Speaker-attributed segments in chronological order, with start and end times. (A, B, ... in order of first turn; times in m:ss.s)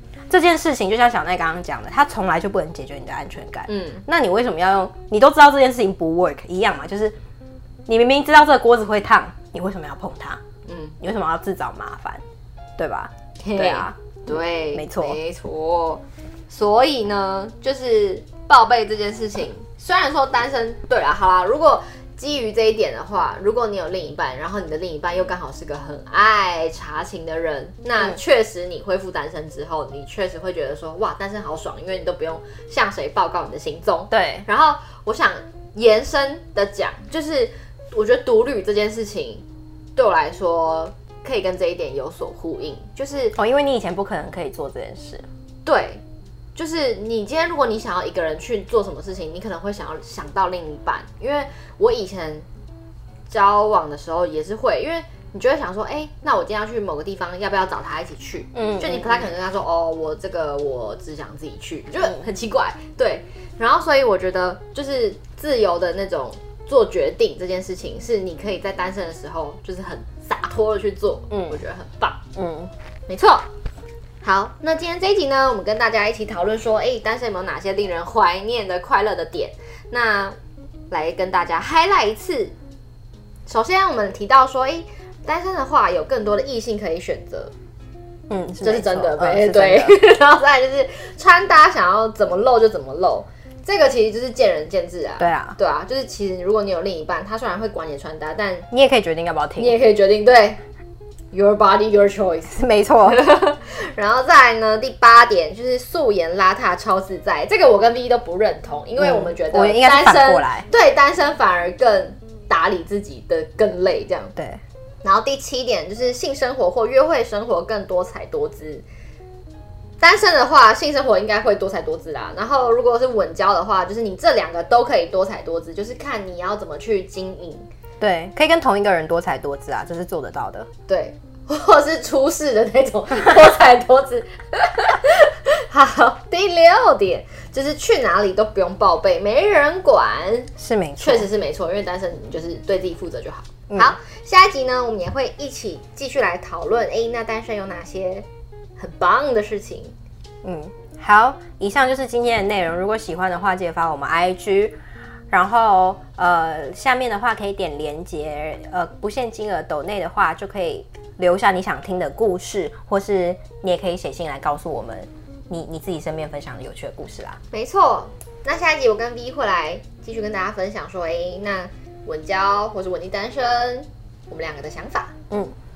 0:00.3-0:07.2 A
0:03.7-0:04.0 B
0:07.9-0:10.4 A
0:10.6-0:11.0 B
0:11.0-0:12.2 A
0:12.8-0:14.2 A
0:13.4-0:39.4 B
0:14.7-0:15.2 A
0:34.1-0:34.4 A
0:40.0-0:43.3 B
0:43.3-0:45.2 A
0:45.6-0:46.0 B
0:46.6-0:52.4 B
0:53.3-1:12.2 B
0:58.5-0:59.2 A
1:11.3-1:11.6 A
1:12.4-1:12.7 A
1:13.1-1:13.5 B
1:14.2-1:20.4 B
1:20.9-1:22.5 B
1:23.4-1:27.5 B
1:28.3-1:30.0 A
1:28.6-1:38.7 B
1:35.2-1:35.6 A
1:38.7-1:39.8 A
1:39.6-1:40.6 B
1:41.3-1:54.3 B
1:42.5-1:43.2 A
1:49.0-1:50.7 A
1:54.4-1:54.6 A
1:55.0-1:58.8 B
2:00.0-2:07.7 B
2:08.0-2:10.7 A
2:10.9-2:28.2 B
2:20.6-2:21.3 A
2:23.7-2:23.9 A
2:28.8-2:29.9 B
2:30.4-2:34.8 A
2:35.3-2:47.4 A
2:47.5-2:55.1 B